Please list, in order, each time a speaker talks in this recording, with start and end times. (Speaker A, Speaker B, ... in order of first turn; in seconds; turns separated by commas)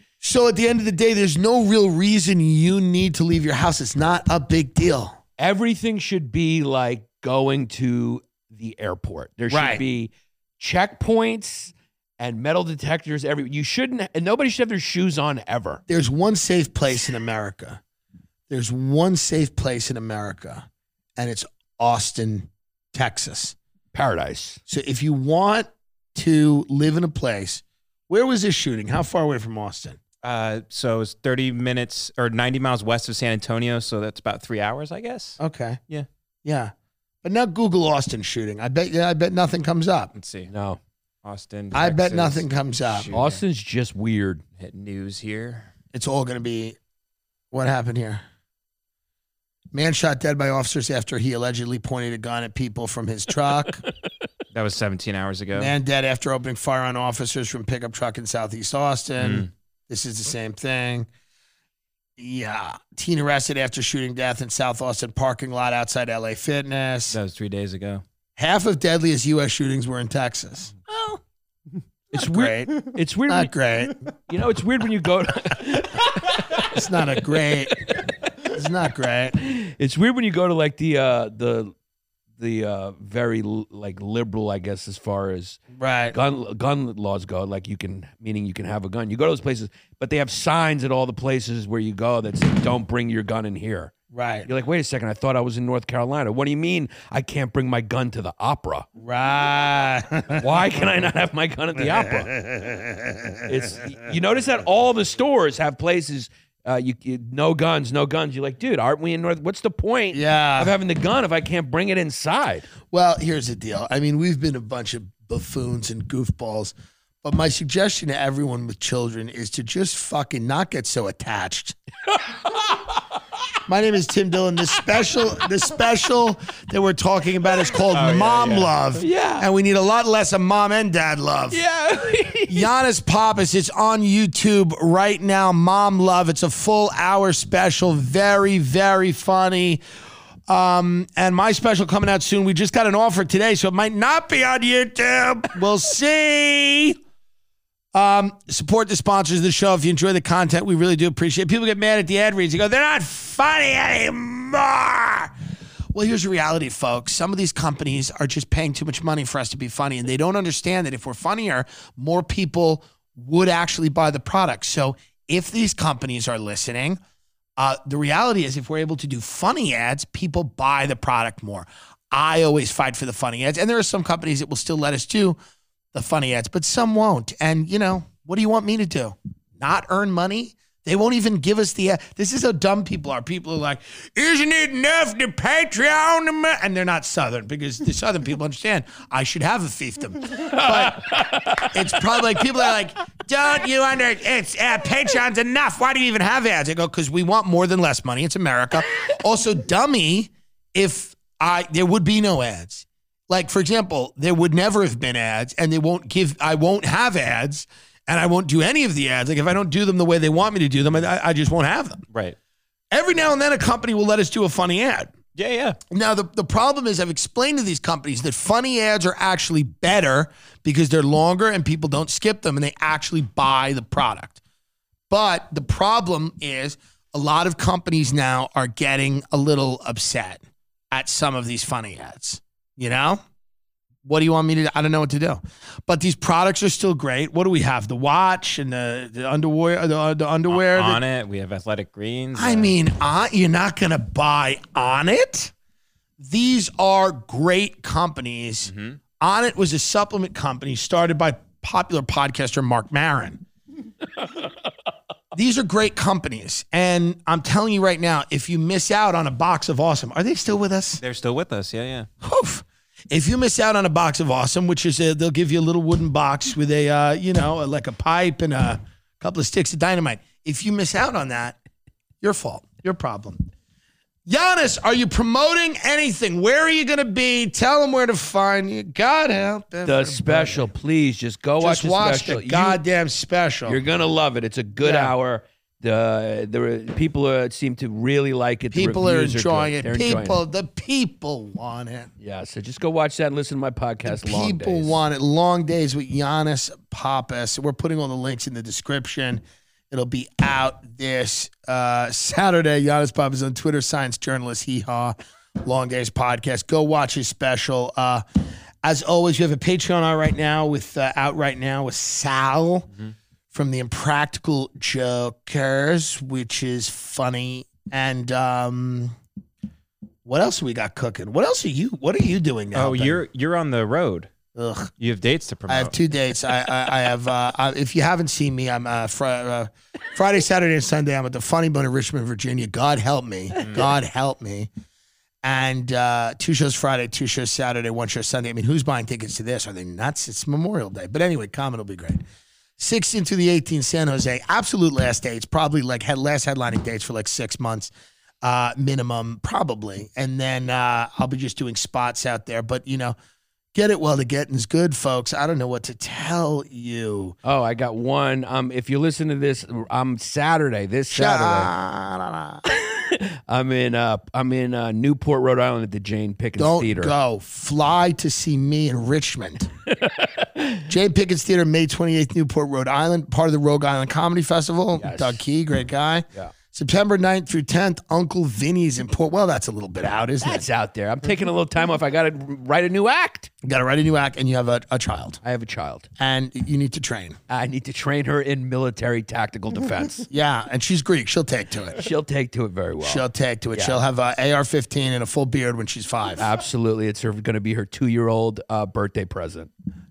Speaker A: 0.2-5.2, Speaker B: 5.4-15.8, Speaker A: 9.5-9.8, Speaker A: 15.9-17.8, Speaker A: 18.5-20.7, Speaker A: 21.2-23.6, Speaker B: 23.9-24.6, Speaker A: 24.7-30.0, Speaker C: 30.2-36.1, Speaker A: 35.4-35.8, Speaker A: 36.5-36.7, Speaker A: 37.2-40.1, Speaker C: 40.1-40.5, Speaker B: 40.5-40.8, Speaker C: 41.2-43.4, Speaker A: 41.7-43.1, Speaker B: 43.1-44.4, Speaker C: 44.6-45.7, Speaker A: 45.9-46.8, Speaker A: 47.5-48.2, Speaker A: 49.7-53.8, Speaker C: 54.5-55.7, Speaker A: 55.5-61.1, Speaker C: 59.2-59.5, Speaker A: 62.2-67.2, Speaker C: 67.1-68.0, Speaker A: 68.4-70.7, Speaker B: 72.1-73.5, Speaker A: 72.2-72.8, Speaker A: 73.3-74.0, Speaker B: 74.2-76.8, Speaker A: 76.5-77.9, Speaker B: 77.6-78.0, Speaker A: 78.4-79.4, Speaker B: 79.4-81.7, Speaker B: 82.4-85.6, Speaker A: 85.8-86.2, Speaker B: 86.1-93.9, Speaker A: 94.1-94.5, Speaker B: 94.5-98.9, Speaker A: 99.0-100.4, Speaker B: 100.3-102.3, Speaker A: 101.8-103.7, Speaker B: 103.5-112.7, Speaker A: 110.1-110.7, Speaker A: 112.9-121.8, Speaker B: 122.5-122.8, Speaker A: 123.7-131.6, Speaker C: 127.9-128.7, Speaker B: 129.0-129.5, Speaker B: 131.5-132.7, Speaker A: 132.5-139.8, Speaker A: 140.5-147.0, Speaker A: 147.9-155.3, Speaker A: 155.9-167.0, Speaker A: 167.6-175.4, Speaker A: 175.9-212.1, Speaker B: 190.5-191.7, Speaker A: 212.9-215.2, Speaker C: 215.3-215.8, Speaker A: 215.9-224.4, Speaker A: 225.1-233.2, Speaker A: 234.0-241.0, Speaker C: 240.5-242.7, Speaker A: 242.4-245.5, Speaker A: 246.2-253.4, Speaker C: 248.7-249.0, Speaker A: 255.3-261.0, Speaker C: 261.0-262.1, Speaker A: 262.2-271.6, Speaker A: 272.2-273.4, Speaker A: 274.3-280.7, Speaker B: 279.9-282.8, Speaker A: 281.6-283.8, Speaker B: 283.7-290.4, Speaker A: 284.8-285.1, Speaker A: 288.7-292.1, Speaker B: 292.2-295.0, Speaker A: 294.1-308.2, Speaker A: 308.8-312.9, Speaker A: 313.5-319.2, Speaker A: 320.2-323.2, Speaker C: 322.7-324.3, Speaker A: 324.5-324.9, Speaker C: 325.0-325.9, Speaker A: 325.7-334.7, Speaker C: 333.6-333.9, Speaker A: 335.4-342.2, Speaker A: 342.8-347.9, Speaker A: 348.4-353.2, Speaker A: 353.8-357.4, Speaker B: 357.4-361.7, Speaker A: 361.1-362.6, Speaker B: 362.7-367.1, Speaker A: 366.6-369.7, Speaker B: 369.9-370.9, Speaker A: 370.9-380.7, Speaker B: 375.0-375.4, Speaker B: 380.4-383.5, Speaker A: 383.6-385.4, Speaker B: 385.4-386.1, Speaker A: 386.2-387.4, Speaker B: 387.5-390.3, Speaker A: 390.3-392.0, Speaker B: 392.0-394.0, Speaker A: 393.0-396.5, Speaker B: 396.4-399.7